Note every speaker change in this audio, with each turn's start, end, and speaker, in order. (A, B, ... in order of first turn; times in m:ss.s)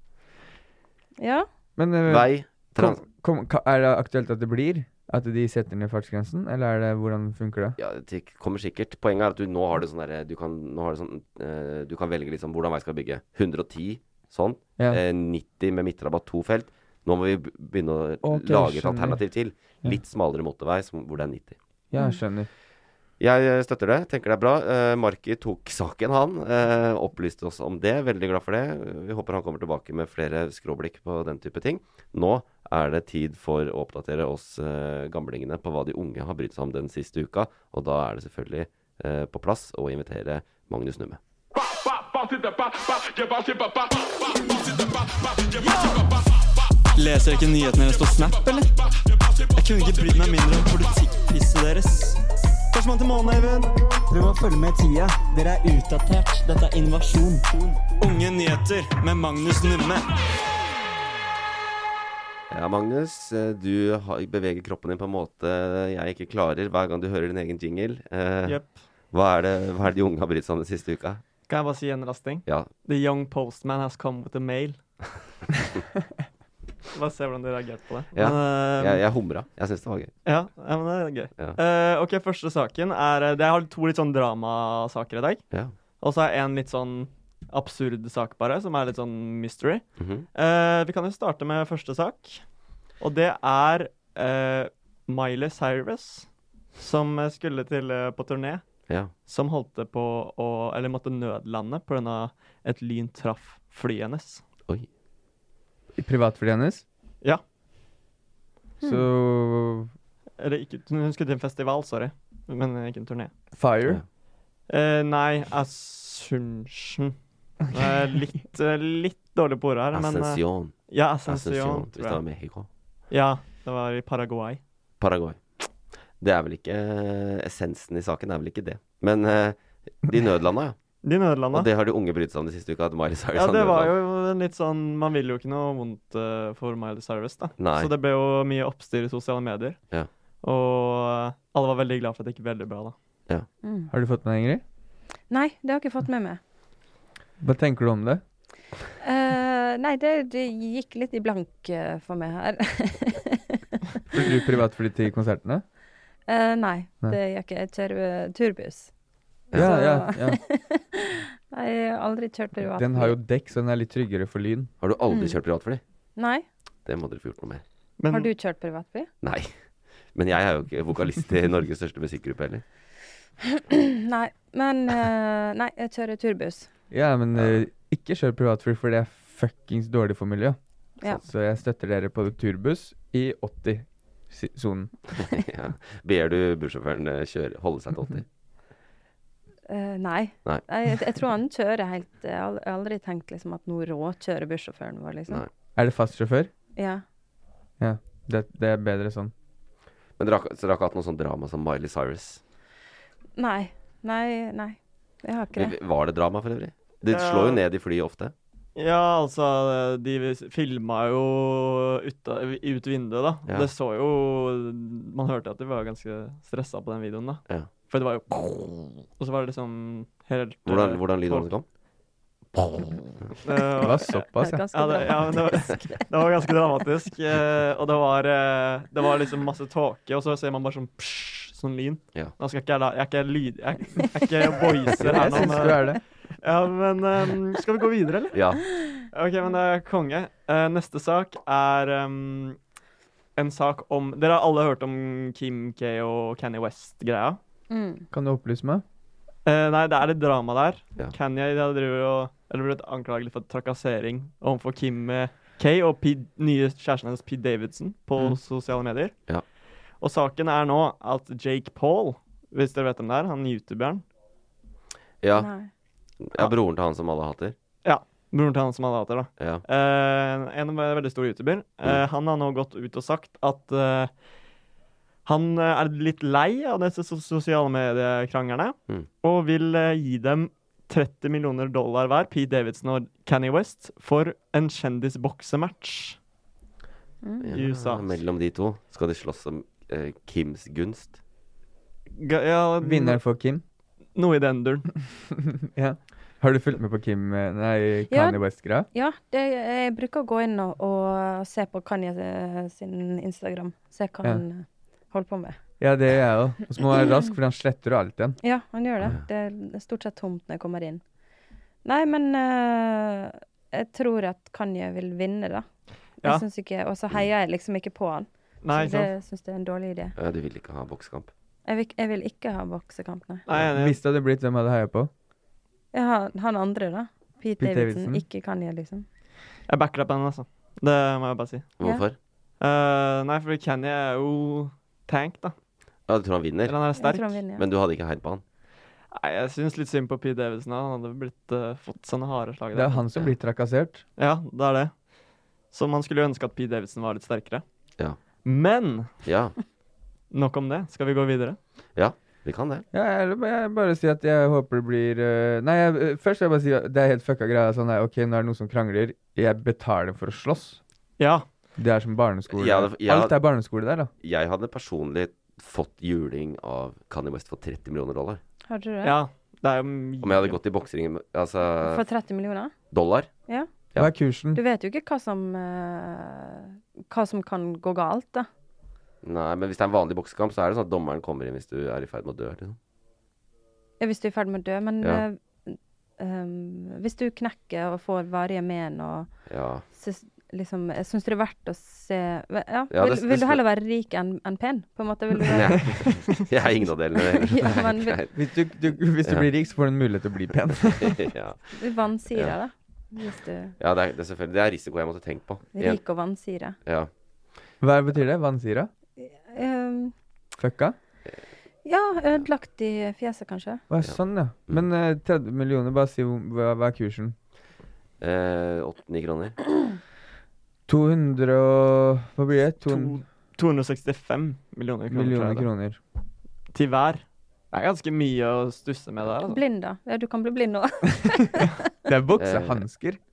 0:01.2-0:01.5 A
0:01.8-0:07.8 B
0:02.0-0:03.0 C
0:07.8-0:21.6 C
0:18.2-0:19.2 B
0:21.9-0:22.5 B
0:23.2-0:41.2 C
0:42.8-0:43.8 D
0:44.6-0:46.1 D
0:46.9-0:48.8 D
0:49.4-1:00.1 D
1:02.5-1:08.6 C
1:08.4-1:08.8 D
1:09.1-1:11.2 C
1:11.5-1:14.8 D
1:12.4-1:12.7 C
1:16.9-1:19.0 D
1:18.1-1:20.1 C
1:20.2-1:25.4 D
1:26.0-1:32.4 D
1:30.0-1:30.2 C
1:33.0-1:38.6 D
1:39.2-1:44.4 D
1:46.0-1:46.8 B
1:48.8-1:49.9 B
1:50.4-1:53.3 D
1:53.5-1:54.0 B
1:54.7-1:57.2 D
1:57.7-2:02.2 D
1:59.9-2:02.7 C
2:03.1-2:04.6 D
2:05.0-2:10.8 C
2:11.0-2:11.7 D
2:11.5-2:13.9 C
2:13.3-2:19.8 D
2:17.6-2:17.9 C
2:20.4-2:23.0 D
2:23.6-2:23.9 A
2:23.9-2:24.6 B
2:25.3-2:26.4 A
2:27.4-2:28.2 B
2:29.0-2:33.6 A
2:34.1-2:35.6 B
2:36.3-2:38.9 A
2:39.5-2:43.2 A
2:39.5-2:40.4 B
2:42.7-2:44.7 B
2:44.8-2:45.8 C
2:45.1-2:45.3 A
2:46.2-2:46.4 A
2:46.8-2:47.6 C
2:48.0-2:48.3 D
2:48.1-2:49.1 A
2:49.2-2:49.5 C
2:50.1-2:52.6 C
2:53.5-2:56.7 A
2:56.9-3:00.6 B
2:57.4-2:57.6 C
3:01.2-3:04.9 B
3:05.1-3:08.2 C
3:09.7-3:15.4 A
3:15.8-3:16.5 B
3:16.8-3:17.0 A
3:17.8-3:19.3 B
3:20.2-3:22.4 C
3:23.4-3:25.7 A
3:25.6-3:28.3 C
3:27.1-3:27.6 D
3:28.8-3:41.5 D
3:40.6-3:41.6 C
3:42.5-3:43.0 C
3:43.4-3:58.4 D
3:43.8-3:44.6 B
3:44.3-3:45.9 A
3:55.0-3:55.4 C
3:55.0-3:56.0 B
3:58.3-3:58.6 C
3:59.1-4:02.6 D
4:03.4-4:07.4 D
4:07.7-4:08.1 A
4:08.1-4:08.8 B
4:09.4-4:19.1 D
4:20.0-4:24.0 D
4:25.2-4:25.5 C
4:25.3-4:25.7 A
4:26.2-4:27.6 C
4:27.8-4:34.1 D
4:29.4-4:29.6 C
4:35.2-4:46.2 D
4:47.2-4:47.5 A
4:47.4-4:51.2 C
4:47.5-4:48.1 D
4:52.2-4:53.2 D
4:52.8-4:53.6 B
4:54.1-4:54.9 D
4:55.4-4:58.9 B
4:58.1-5:05.6 A
5:05.8-5:08.4 B
5:08.4-5:11.0 A
5:11.8-5:15.6 A
5:16.2-5:20.1 A
5:18.6-5:19.1 D
5:20.2-5:21.3 C
5:21.6-5:23.4 A
5:23.5-5:24.0 D
5:23.7-5:25.1 B
5:25.9-5:29.0 A
5:27.6-5:28.2 B
5:29.7-5:31.7 D
5:31.8-5:32.2 C
5:32.6-5:35.6 D
5:36.1-5:36.8 C
5:36.6-5:37.4 D
5:37.0-5:37.6 A
5:37.6-5:38.4 C
5:39.1-5:43.1 D
5:42.7-5:44.0 B
5:44.2-5:44.9 D
5:45.7-5:47.6 D
5:48.4-5:49.1 D
5:49.2-5:49.6 C
5:50.3-5:51.6 D
5:52.0-5:52.8 C
5:52.9-6:00.8 B
6:01.2-6:01.5 D
6:01.8-6:04.1 B
6:02.5-6:03.4 C
6:04.2-6:08.4 C
6:08.7-6:09.2 A
6:09.0-6:10.6 D
6:10.2-6:12.0 C
6:11.8-6:12.7 A
6:12.9-6:13.3 C
6:14.0-6:14.6 B
6:14.5-6:18.5 A
6:19.2-6:22.8 C
6:24.0-6:29.3 A
6:29.5-6:29.8 C
6:29.9-6:36.0 A
6:32.9-6:33.6 C
6:35.5-6:38.3 C
6:37.2-6:38.2 A
6:38.3-6:41.3 B
6:40.7-6:41.8 C
6:41.8-6:43.7 A
6:43.8-6:46.0 C
6:45.7-6:46.8 A
6:46.8-6:47.1 C
6:47.8-6:48.9 B
6:49.2-6:50.1 A
6:50.6-6:50.9 B
6:51.8-6:53.8 A
6:53.9-6:57.4 B
6:58.2-6:59.6 C
7:00.9-7:03.2 B
7:02.8-7:05.7 D
7:05.1-7:06.0 B
7:06.7-7:09.6 D
7:09.5-7:11.7 A
7:12.0-7:13.2 B
7:12.4-7:12.8 C